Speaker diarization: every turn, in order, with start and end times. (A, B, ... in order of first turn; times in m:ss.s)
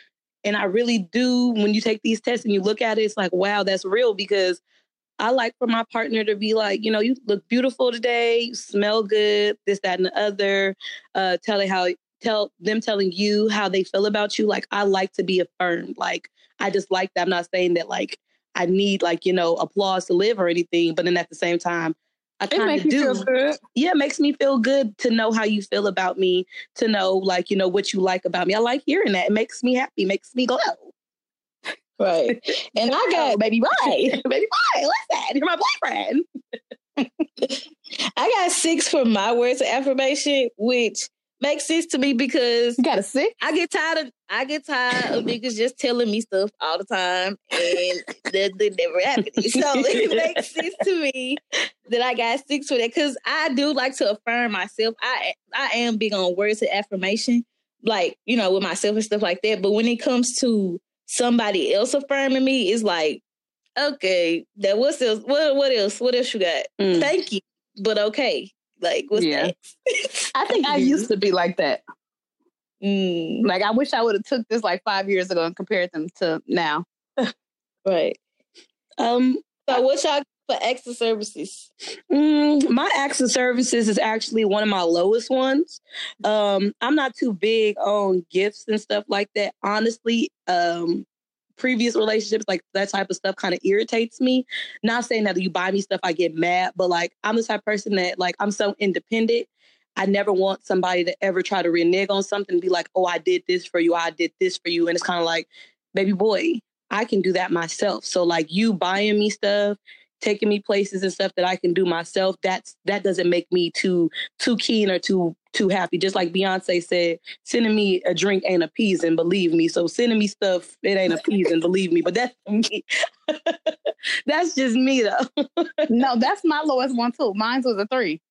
0:00.4-0:04.6 A
0:05.2-0:30.9 A
0:22.5-0:23.6 B
0:32.0-0:34.0 C
0:32.3-0:36.2 A
0:33.2-0:34.0 B
0:38.2-0:42.8 C
0:42.8-0:43.4 B
0:43.4-1:03.2 C
0:49.5-0:50.4 A
1:03.8-1:10.9 C
1:06.8-1:07.1 A
1:09.1-1:09.5 B
1:10.3-1:11.8 B
1:10.6-1:11.0 A
1:12.8-1:13.5 C
1:13.4-1:16.8 B
1:17.8-1:18.2 C
1:19.0-1:19.8 A
1:19.7-1:21.7 C
1:22.1-2:03.7 A
2:04.2-2:05.9 A
2:05.9-2:08.2 B